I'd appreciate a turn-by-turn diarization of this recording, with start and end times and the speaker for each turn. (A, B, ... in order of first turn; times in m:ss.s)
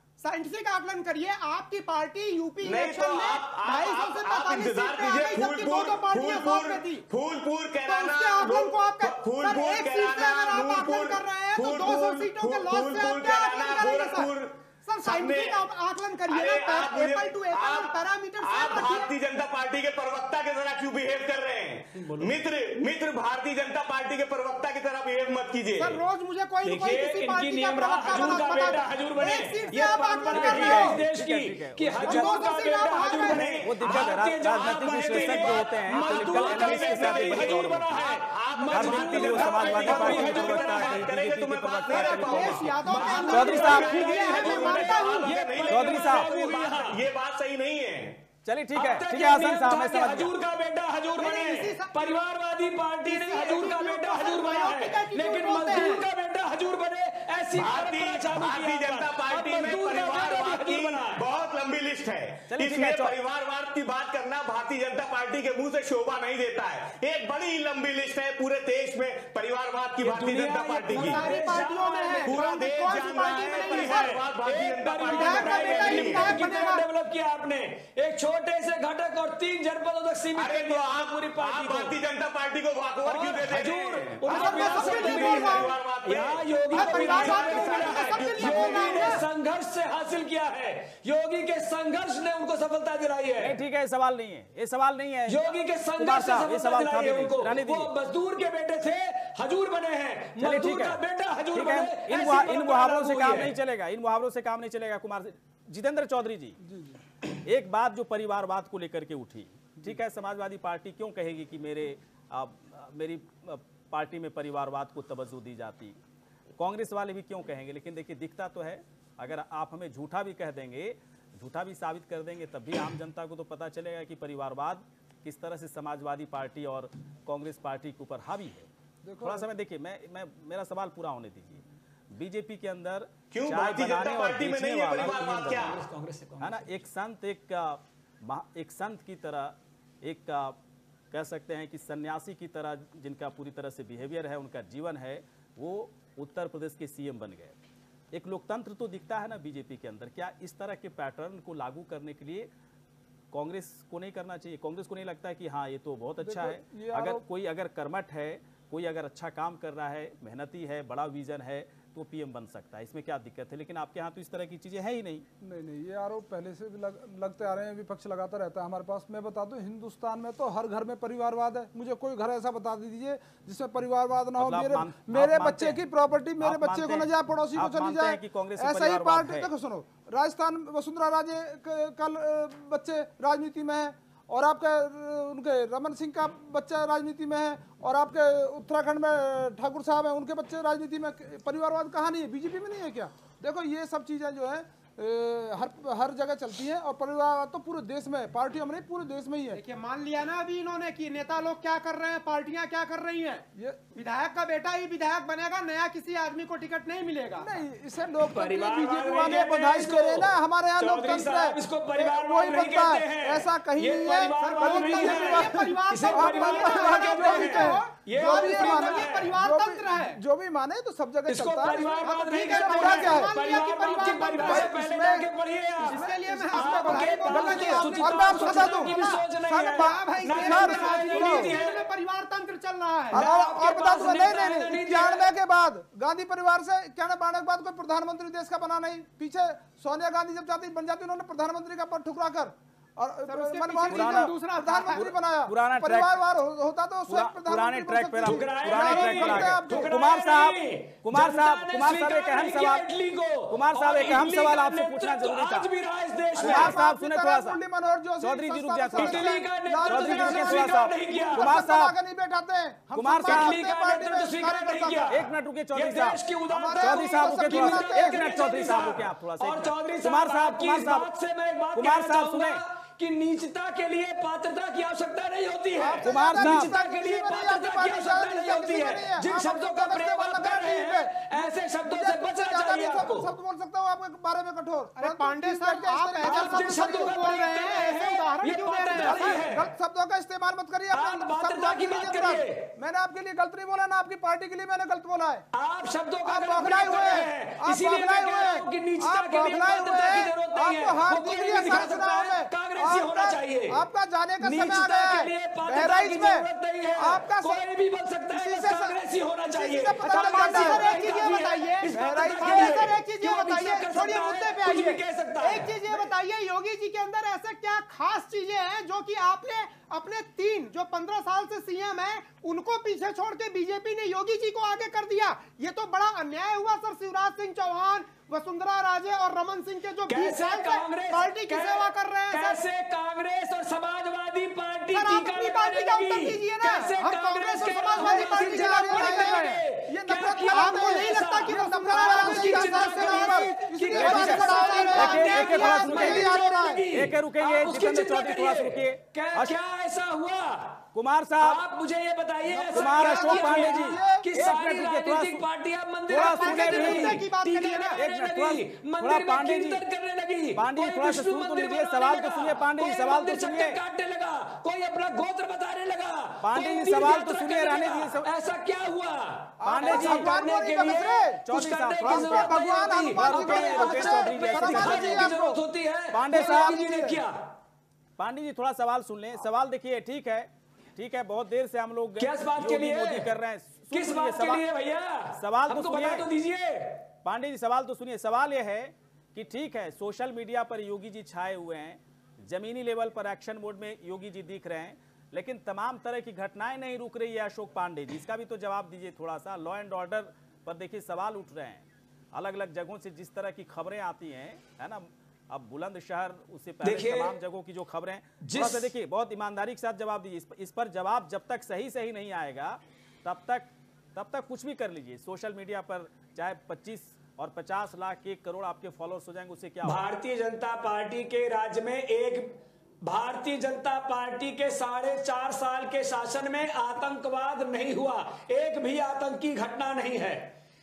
0:00.2-0:07.0 A
0:02.6-0:15.7 B
0:07.9-0:14.3 A
0:14.8-0:19.1 A
0:16.3-0:26.0 B
0:22.0-0:22.3 C
0:25.8-0:31.0 A
0:26.6-0:41.1 C
0:30.3-0:32.4 D
0:32.0-0:33.6 A
0:33.0-0:48.2 B
0:33.6-0:37.9 D
0:38.7-0:42.8 D
0:41.9-0:45.4 A
0:42.8-0:47.0 C
0:43.3-0:44.0 D
0:45.7-0:46.4 D
0:48.4-0:50.3 D
0:48.7-1:01.2 C
0:51.2-0:52.2 A
0:53.0-0:56.0 A
0:57.5-1:11.2 B
1:02.5-1:03.1 D
1:10.0-1:12.4 C
1:10.9-1:14.2 A
1:12.2-1:16.5 B
1:13.2-1:22.0 C
1:15.0-1:16.9 A
1:20.4-1:29.1 B
1:23.0-1:33.6 C
1:24.2-1:25.7 A
1:26.7-1:29.2 A
1:33.4-1:37.9 D
1:35.3-1:43.5 C
1:40.4-1:41.0 D
1:41.5-1:46.6 D
1:46.6-1:47.0 E
1:47.2-1:56.0 D
1:56.6-2:15.8 D
2:09.0-2:09.4 E
2:13.3-2:15.8 B
2:15.0-2:16.7 C
2:16.4-2:20.6 D
2:21.1-2:27.6 D
2:28.1-2:32.5 D
2:33.3-2:45.2 D
2:36.2-2:37.2 E
2:45.4-3:19.6 E
2:54.4-2:55.8 D
2:56.4-2:59.5 D
3:19.5-3:27.5 A
3:23.6-3:23.8 E
3:27.4-3:43.3 E
3:28.3-3:39.3 C
3:34.0-3:40.2 A
3:41.3-3:51.8 C
3:42.1-3:44.8 A
3:44.4-3:45.3 E
3:45.8-3:53.2 A
3:45.8-3:51.5 E
3:53.1-4:10.0 E
3:53.1-3:55.3 C
4:03.3-4:05.1 A
4:03.9-4:04.3 D
4:04.9-4:06.2 D
4:07.1-4:12.8 D
4:08.2-4:16.8 C
4:13.5-4:15.7 D
4:16.4-4:17.6 D
4:16.4-4:25.2 E
4:18.2-4:19.3 D
4:19.0-4:21.5 C
4:19.8-4:22.0 D
4:22.9-4:23.6 D
4:23.2-4:43.3 C
4:25.1-4:26.2 D
4:26.5-4:28.4 E
4:26.8-4:31.1 D
4:31.8-4:32.6 D
4:35.8-4:46.9 E
4:36.0-4:36.8 D
4:45.0-4:49.5 A
4:46.2-4:49.7 C
4:49.0-4:55.4 E
4:50.9-4:52.8 C
4:55.5-5:03.8 C
4:56.2-5:07.6 E
5:04.4-5:15.7 C
5:08.3-5:11.2 E
5:10.0-5:32.6 A
5:11.9-5:12.9 E
5:30.1-5:50.8 C
5:34.9-5:39.6 A
5:37.8-5:46.8 E
5:40.5-5:46.1 A
5:44.0-5:46.3 D
5:46.9-5:49.6 D
5:51.0-5:51.6 D
5:51.4-6:17.4 C
5:52.5-5:54.3 E
5:52.7-5:55.4 D
5:56.1-5:57.2 D
5:56.2-5:58.0 A
5:58.0-5:59.8 D
6:00.5-6:03.8 D
6:06.4-6:08.3 D
6:09.6-6:11.4 E
6:09.6-6:10.3 D
6:11.4-6:15.3 D
6:12.0-6:15.6 E
6:16.1-6:16.8 D
6:16.3-6:17.2 E
6:18.2-6:24.6 D
6:22.2-6:23.3 C
6:23.9-6:27.0 C
6:25.4-6:26.3 D
6:27.2-7:00.1 D
6:46.8-6:47.4 C
6:48.4-6:48.9 C
6:59.8-7:10.5 C